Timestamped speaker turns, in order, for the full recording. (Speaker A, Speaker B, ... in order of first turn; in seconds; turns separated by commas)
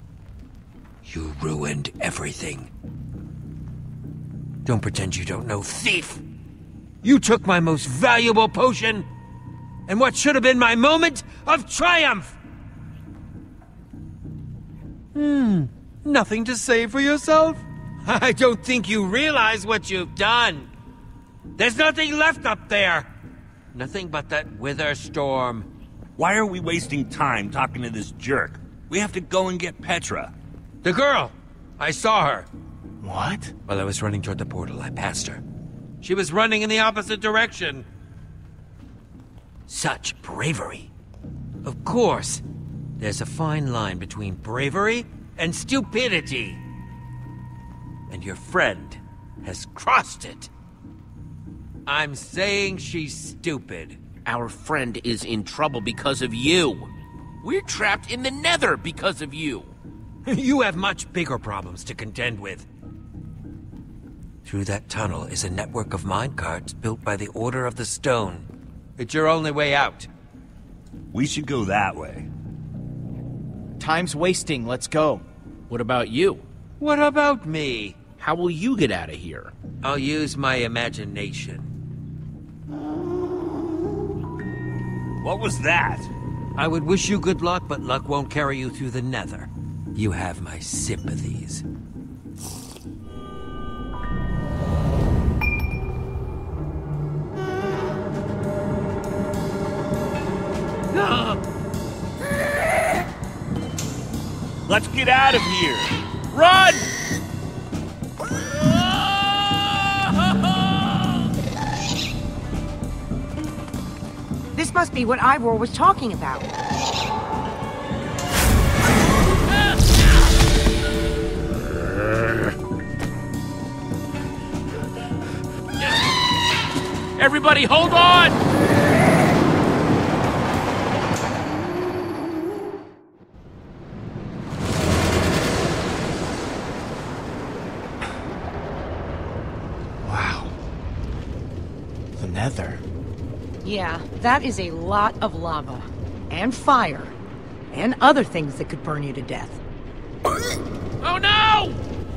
Speaker A: 1.1-2.7, Speaker A: 4.7-6.2, Speaker A: 7.0-9.1, Speaker A: 9.9-12.3, Speaker A: 15.2-20.7, Speaker A: 21.6-23.1, Speaker A: 23.7-25.7, Speaker B: 26.2-30.3, Speaker A: 30.8-32.5, Speaker C: 33.0-33.5, Speaker A: 33.7-35.4, Speaker A: 36.0-37.9, Speaker A: 39.7-40.9, Speaker A: 41.6-42.4, Speaker A: 43.0-46.6, Speaker A: 48.1-50.5, Speaker A: 51.9-54.0, Speaker D: 54.2-56.9, Speaker D: 57.4-59.8, Speaker A: 60.3-62.7, Speaker A: 64.5-70.1, Speaker B: 71.1-72.3, Speaker C: 73.8-75.2, Speaker D: 75.7-76.5, Speaker A: 76.8-78.0, Speaker D: 78.2-79.5, Speaker A: 79.8-81.7, Speaker B: 85.2-86.1, Speaker A: 86.6-91.6, Speaker D: 101.0-101.4, Speaker B: 104.7-105.9, Speaker D: 106.3-106.9, Speaker E: 114.5-116.5, Speaker D: 127.2-128.4, Speaker C: 140.1-140.5, Speaker C: 142.2-142.8, Speaker E: 143.6-147.2, Speaker E: 147.7-149.6, Speaker D: 151.0-151.8